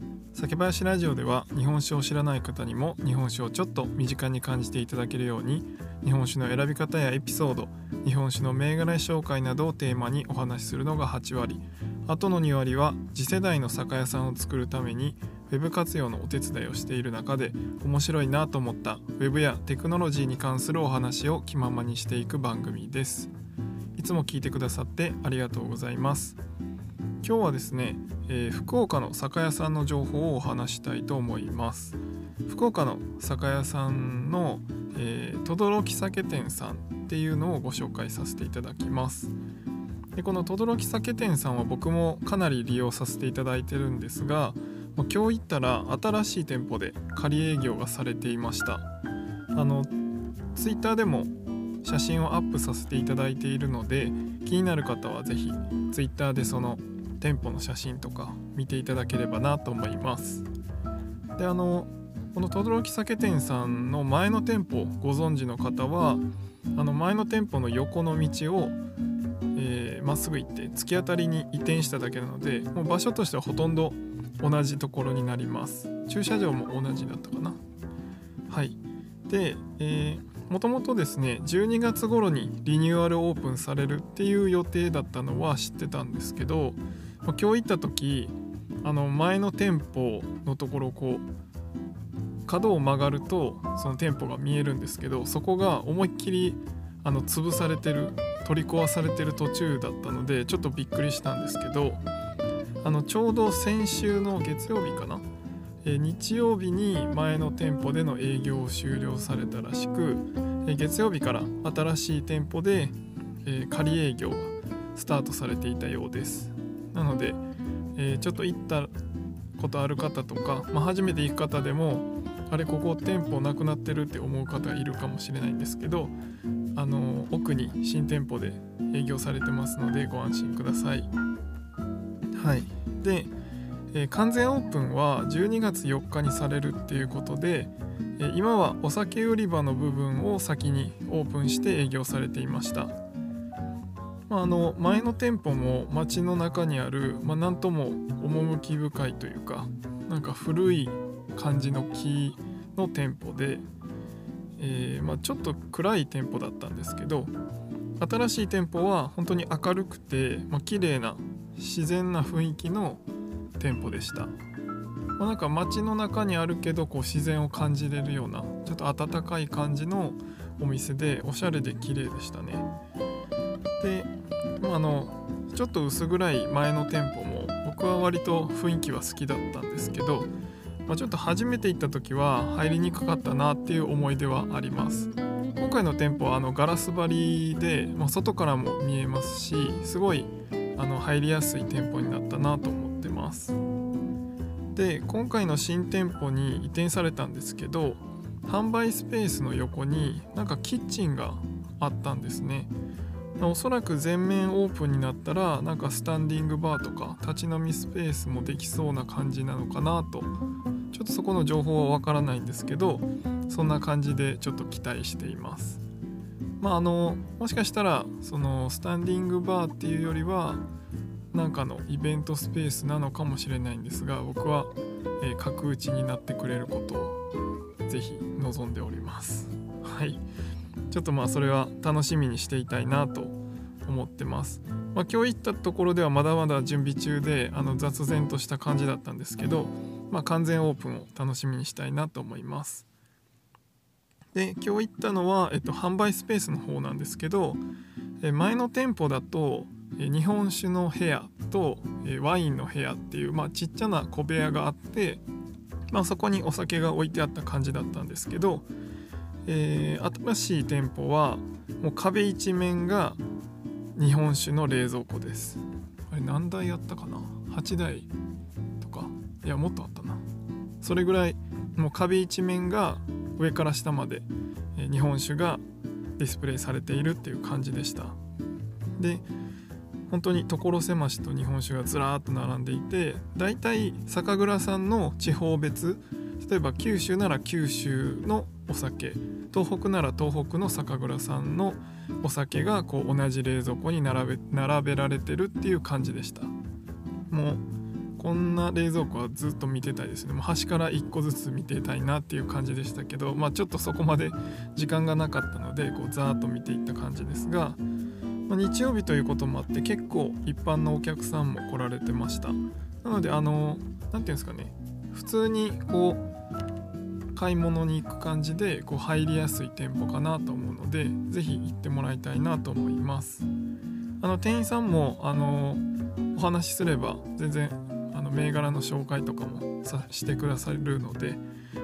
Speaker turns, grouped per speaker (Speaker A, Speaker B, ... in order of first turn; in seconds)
Speaker A: 0.3-23.3, 24.0-26.4, 27.2-39.4, 40.1-48.9, 49.5-49.9, 50.5-51.3, 51.8-60.5, 61.4-66.2, 66.8-68.8, 69.5-77.6, 78.5-91.3, 92.5-102.0, 102.8-105.2, 105.8-117.4, 118.0-118.9, 119.6-126.2, 126.8-131.1, 132.3-133.3, 133.9-143.0, 144.3-153.7, 154.6-157.3, 158.0-163.0, 163.6-164.3, 165.2-172.7, 173.8-180.3, 180.9-193.6, 194.7-202.7, 203.4-210.3, 210.9-215.8, 216.6-220.6, 221.3-227.2, 227.8-230.2, 230.9-242.9, 244.3-247.6, 248.2-255.2, 255.9-258.7, 259.5-263.2, 264.0-268.1, 268.8-270.2, 270.8-275.6, 276.2-278.2, 279.0-279.2, 280.1-296.5, 297.3-297.6, 298.2-307.8, 308.5-316.2, 317.3-323.5, 324.2-331.4